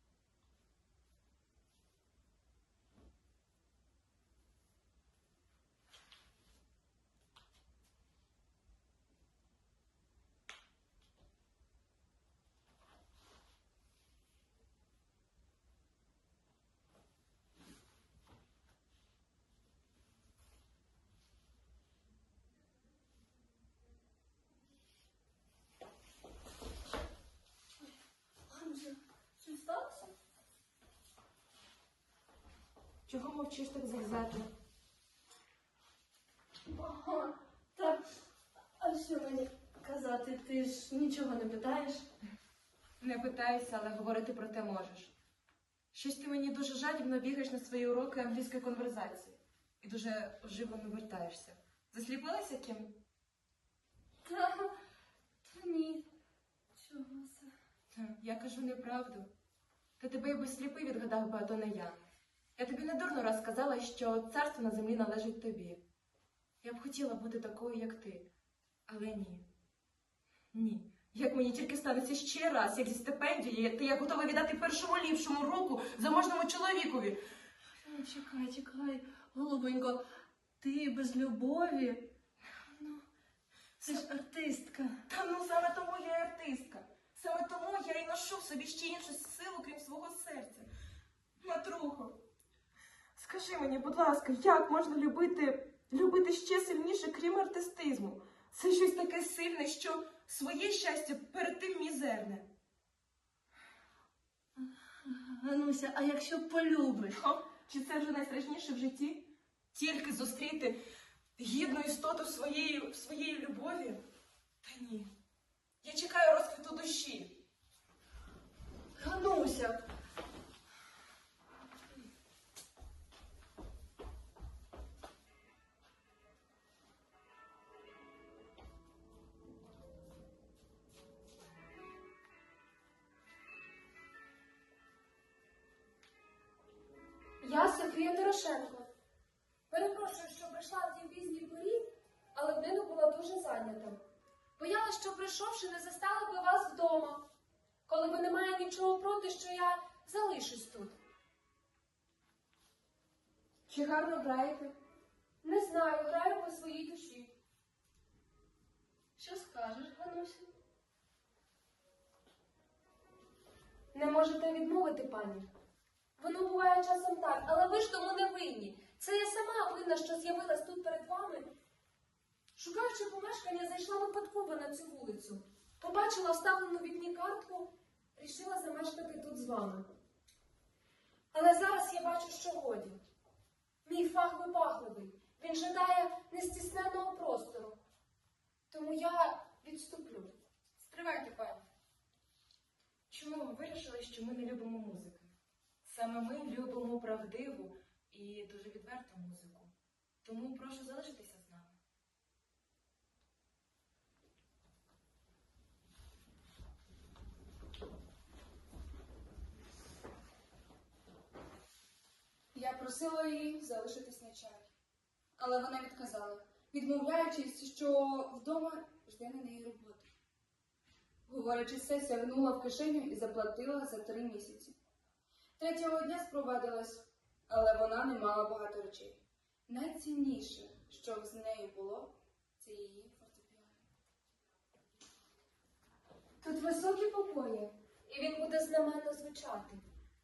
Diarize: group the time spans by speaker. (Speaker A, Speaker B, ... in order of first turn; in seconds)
Speaker A: 28.5-30.1, 36.8-38.0, 38.8-42.1, 54.3-54.7, 55.5-56.0, 56.8-57.5, 77.8-80.0, 80.6-82.1, 83.8-85.0, 105.0-107.2, 159.8-160.2
Speaker B: 33.1-34.5, 43.0-45.1, 45.9-53.0, 57.9-59.3, 60.0-62.0, 62.6-65.8, 66.6-68.3, 68.9-69.5, 70.5-77.2, 82.6-83.0, 83.8-84.1, 85.1-90.7, 91.4-92.2, 93.2-102.5, 107.1-110.8, 111.4-114.0, 114.6-115.1, 115.8-117.4, 153.7-154.8, 193.1-195.3, 195.8-199.7, 200.2-201.8
Speaker C: 137.4-138.9, 139.7-144.0, 144.6-147.2, 147.9-151.0, 155.4-157.3, 159.2-160.4, 163.9-165.5, 166.2-171.5, 172.6-179.9, 181.3-183.0, 183.8-187.8, 188.7-190.3, 236.4-239.8
Speaker D: 190.8-191.7, 212.5-214.7, 215.4-220.1, 221.3-224.8, 225.6-233.8